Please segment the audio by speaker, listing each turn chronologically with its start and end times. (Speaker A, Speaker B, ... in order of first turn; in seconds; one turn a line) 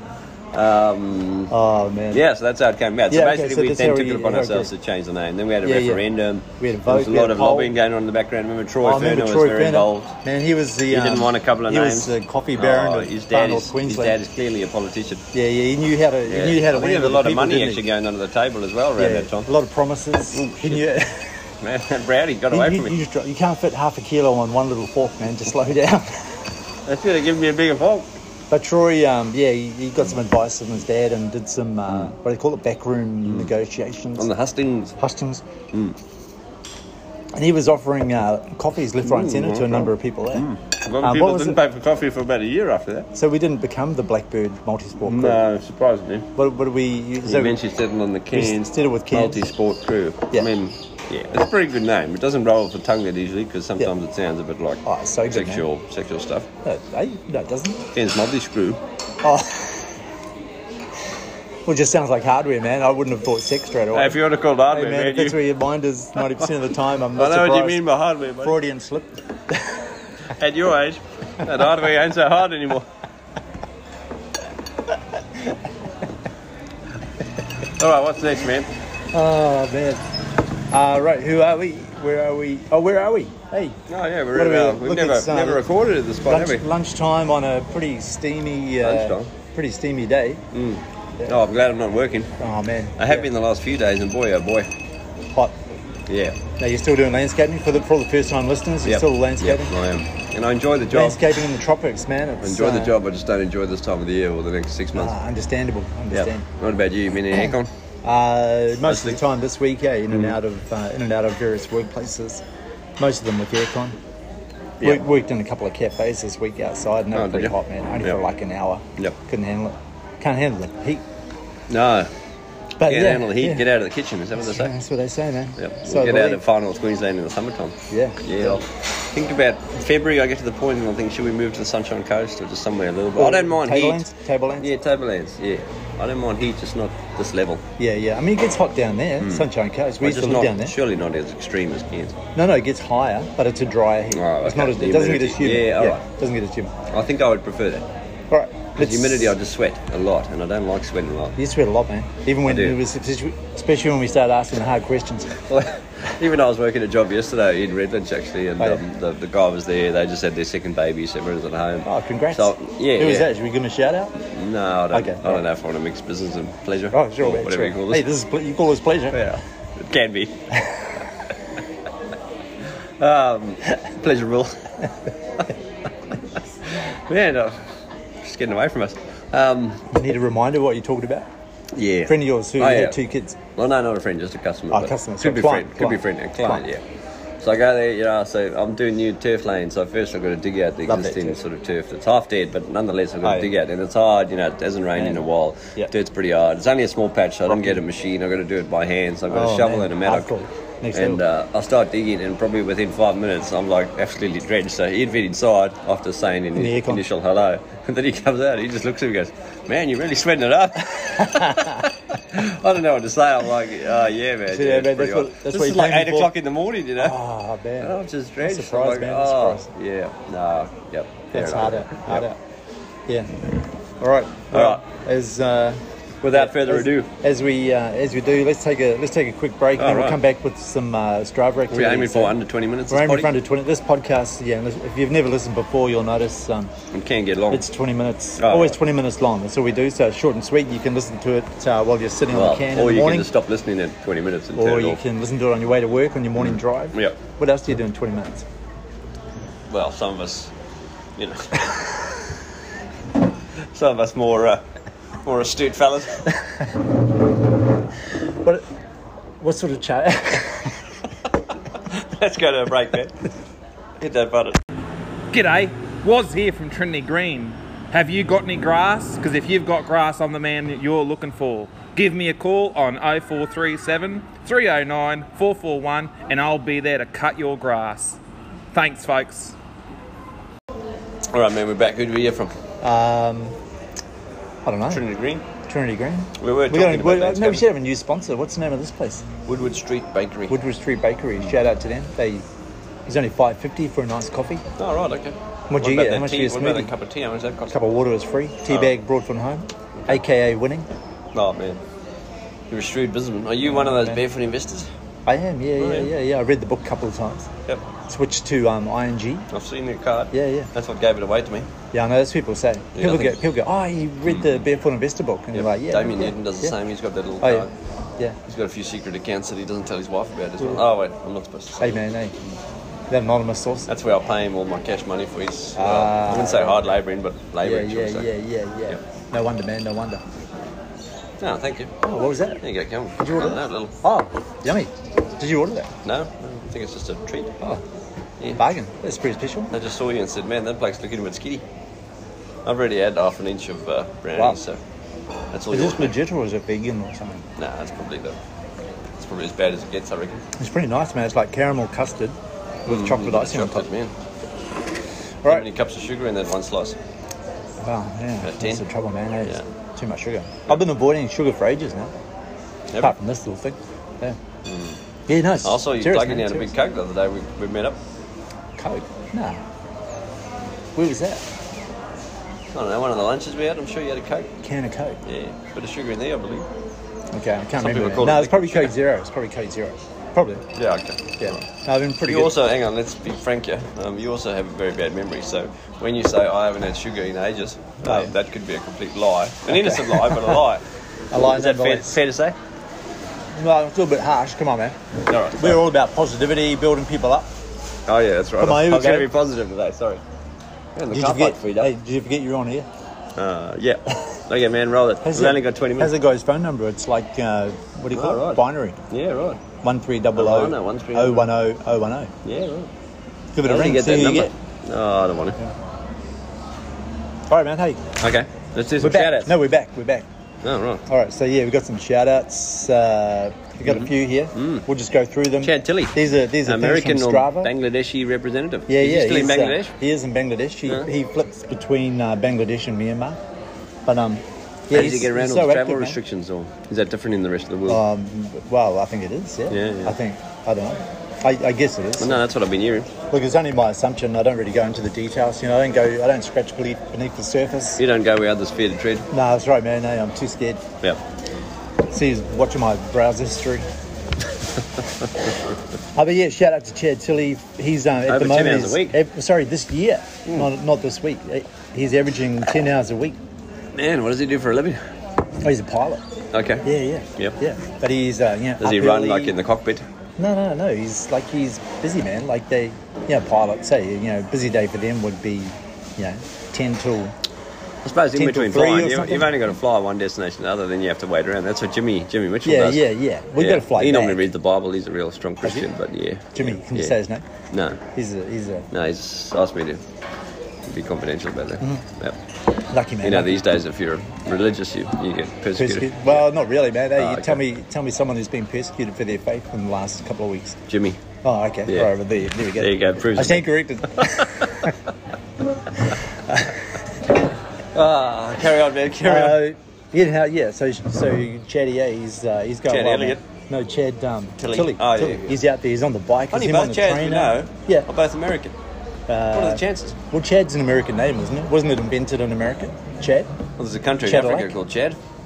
Speaker A: 0.5-1.5
Speaker B: 1.5-2.2
Speaker A: 2.1-10.1
Speaker B: 3.1-4.7
Speaker B: 5.6-6.0
Speaker B: 6.6-7.7
Speaker B: 8.8-14.2
Speaker A: 10.9-15.2
Speaker B: 15.3-17.9
Speaker A: 16.3-19.5
Speaker B: 19.0-21.3
Speaker A: 20.3-20.9
Speaker A: 21.6-23.0
Speaker B: 22.5-26.4
Speaker A: 26.9-28.1
Speaker B: 28.5-34.3
Speaker A: 33.2-33.5
Speaker A: 34.2-35.0
Speaker B: 35.0-35.4
Speaker A: 35.7-36.0
Speaker B: 37.4-40.5
Speaker A: 39.0-43.1
Speaker B: 41.0-41.6
Speaker B: 43.1-45.4
Speaker A: 45.0-46.3
Speaker B: 46.4-47.6
Speaker A: 47.2-56.5
Speaker B: 48.3-49.4
Speaker B: 54.9-55.6
Speaker B: 56.6-57.9
Speaker A: 57.9-58.8
Speaker B: 59.2-59.9
Speaker B: 61.7-69.6
Speaker A: 63.9-65.5
Speaker A: 67.2-68.6
Speaker A: 70.3-72.9
Speaker A: 77.8-78.7
Speaker B: 79.1-80.0
Speaker B: 80.7-83.8
Speaker A: 83.9-86.7
Speaker B: 84.3-85.7
Speaker B: 86.3-90.4
Speaker A: 88.8-89.3
Speaker A: 90.5-92.3
Speaker B: 92.4-93.3
Speaker A: 93.0-94.7
Speaker A: 96.1-96.4
Speaker B: 96.6-99.7
Speaker A: 98.8-101.3
Speaker B: 100.9-102.9
Speaker A: 102.4-105.2
Speaker B: 104.9-106.5
Speaker A: 106.1-107.7
Speaker B: 107.3-112.4
Speaker A: 108.8-109.2
Speaker A: 110.1-110.4
Speaker B: 113.0-114.0
Speaker B: 114.8-121.0
Speaker A: 117.1-118.2
Speaker A: 121.7-122.1
Speaker B: 122.8-123.7
Speaker A: 122.8-124.7
Speaker B: 124.4-126.4
Speaker A: 125.6-137.6
Speaker B: 127.9-128.6
Speaker B: 133.2-134.7
Speaker B: 137.8-140.8
Speaker A: 139.2-139.5
Speaker A: 140.0-142.2
Speaker B: 142.4-146.7
Speaker A: 144.1-146.0
Speaker A: 146.9-147.9
Speaker B: 148.3-149.3
Speaker A: 148.8-151.4
Speaker B: 151.4-155.5
Speaker A: 152.4-152.8
Speaker A: 155.5-163.3
Speaker B: 161.8-164.2
Speaker A: 164.3-168.1
Speaker B: 164.9-165.4
Speaker B: 166.9-169.2
Speaker A: 169.1-170.4
Speaker A: 173.0-174.6
Speaker A: 176.7-177.6
Speaker A: 178.2-179.9
Speaker B: 179.9-181.3
Speaker A: 181.7-183.0
Speaker B: 182.1-183.4
Speaker A: 183.6-186.8
Speaker B: 184.7-186.7
Speaker A: 187.4-200.4
Speaker B: 190.9-191.4
Speaker B: 193.2-193.5
Speaker B: 195.0-195.2
Speaker B: 197.5-197.8
Speaker B: 199.3-201.2
Speaker A: 200.9-217.2
Speaker B: 206.6-207.1
Speaker B: 211.2-211.9
Speaker B: 214.5-216.3
Speaker B: 217.0-219.7
Speaker A: 217.8-222.3
Speaker B: 221.3-222.4
Speaker B: 223.1-223.4
Speaker B: 224.0-232.4
Speaker A: 224.5-224.8
Speaker A: 226.2-227.1
Speaker A: 229.8-230.2
Speaker A: 231.7-233.4
Speaker B: 232.9-236.7
Speaker A: 236.9-237.7
Speaker B: 237.5-243.3
Speaker A: 238.4-238.8
Speaker A: 242.3-245.0
Speaker B: 244.6-248.5
Speaker A: 246.4-247.2
Speaker A: 249.7-250.5
Speaker A: 251.2-251.7
Speaker A: 253.7-254.6
Speaker A: 255.2-256.3
Speaker B: 259.4-260.8
Speaker A: 261.9-263.2
Speaker A: 264.0-264.6
Speaker C: 265.3-278.2
Speaker C: 278.7-279.6
Speaker A: 281.3-282.5
Speaker B: 282.8-283.6
Speaker B: 284.7-285.0
Speaker A: 284.9-285.5
Speaker B: 285.7-289.2
Speaker A: 286.4-287.7
Speaker A: 289.5-290.6
Speaker B: 290.5-292.4
Speaker B: 293.1-294.6
Speaker A: 294.8-297.8
Speaker B: 295.7-296.9
Speaker B: 297.7-300.9
Speaker A: 298.7-298.9
Speaker A: 301.3-301.8
Speaker A: 302.7-304.9
Speaker B: 303.6-304.2
Speaker B: 305.3-307.5
Speaker A: 305.8-306.1
Speaker B: 308.1-309.5
Speaker A: 309.5-311.7
Speaker B: 310.3-310.7
Speaker B: 311.9-316.8
Speaker A: 312.9-313.4
Speaker A: 314.3-314.6
Speaker A: 315.5-317.7
Speaker B: 317.4-317.7
Speaker A: 318.5-322.0
Speaker B: 321.8-322.4
Speaker B: 323.1-323.9
Speaker A: 323.9-328.3
Speaker B: 325.8-326.8
Speaker B: 327.6-330.2
Speaker A: 331.4-331.9
Speaker B: 332.0-332.6
Speaker A: 332.6-333.9
Speaker B: 333.2-335.9
Speaker A: 336.0-337.6
Speaker B: 338.6-339.7
Speaker A: 339.7-341.6
Speaker A: 342.6-344.8
Speaker A: 345.5-346.2
Speaker B: 345.7-347.4
Speaker A: 347.6-348.4
Speaker A: 349.2-350.4
Speaker B: 350.6-352.4
Speaker B: 352.9-353.9
Speaker A: 352.9-354.1
Speaker A: 355.5-357.0
Speaker B: 357.8-362.1
Speaker A: 358.4-358.8
Speaker B: 363.0-364.4
Speaker A: 364.6-365.0
Speaker B: 365.3-366.7
Speaker A: 365.6-368.0
Speaker B: 368.8-369.6
Speaker B: 371.0-371.4
Speaker A: 372.7-374.5
Speaker B: 374.6-375.2
Speaker A: 375.2-376.7
Speaker B: 377.3-380.7
Speaker A: 377.8-378.9
Speaker A: 380.8-381.6
Speaker B: 381.4-382.5
Speaker A: 382.3-392.6
Speaker B: 388.1-388.3
Speaker B: 389.7-390.6
Speaker B: 391.3-392.2
Speaker B: 393.5-395.0
Speaker A: 395.3-395.9
Speaker B: 395.6-397.5
Speaker A: 398.1-400.2
Speaker B: 398.6-399.3
Speaker A: 400.9-401.9
Speaker B: 401.1-402.9
Speaker A: 403.4-406.1
Speaker B: 405.2-409.0
Speaker A: 408.1-409.6
Speaker B: 409.8-412.3
Speaker A: 410.4-411.6
Speaker A: 412.4-412.9
Speaker B: 413.6-414.5
Speaker A: 413.6-415.6
Speaker B: 417.5-418.1
Speaker A: 418.2-419.6
Speaker B: 419.0-420.3
Speaker A: 420.6-421.0
Speaker B: 421.1-427.7
Speaker A: 423.9-424.9
Speaker A: 425.6-429.9
Speaker B: 428.9-433.4
Speaker B: 434.1-436.2
Speaker A: 434.9-438.0
Speaker B: 437.9-442.4
Speaker A: 439.7-440.2
Speaker A: 442.2-443.1
Speaker B: 443.3-448.0
Speaker A: 448.0-449.3
Speaker B: 449.3-450.8
Speaker B: 452.1-453.9
Speaker B: 456.2-463.4
Speaker A: 458.3-459.2
Speaker A: 463.9-465.0
Speaker B: 465.6-466.2
Speaker A: 466.5-467.6
Speaker B: 466.8-469.6
Speaker A: 468.8-470.0
Speaker B: 470.4-477.3
Speaker A: 478.0-487.2
Speaker B: 478.3-479.5
Speaker B: 482.6-484.4
Speaker B: 486.5-487.4
Speaker A: 487.7-488.0
Speaker B: 488.1-488.9
Speaker A: 488.9-490.0
Speaker A: 490.9-492.4
Speaker B: 492.9-493.6
Speaker A: 493.2-496.4
Speaker B: 495.8-500.8
Speaker A: 497.2-497.6
Speaker A: 500.9-501.2
Speaker B: 501.4-504.5
Speaker A: 501.9-502.1
Speaker A: 502.8-504.9
Speaker A: 507.9-509.6
Speaker B: 509.2-518.1
Speaker A: 512.9-513.4
Speaker A: 514.6-515.6
Speaker A: 516.5-518.8
Speaker B: 519.3-523.5
Speaker A: 519.5-520.2
Speaker A: 523.8-525.2
Speaker B: 524.2-524.8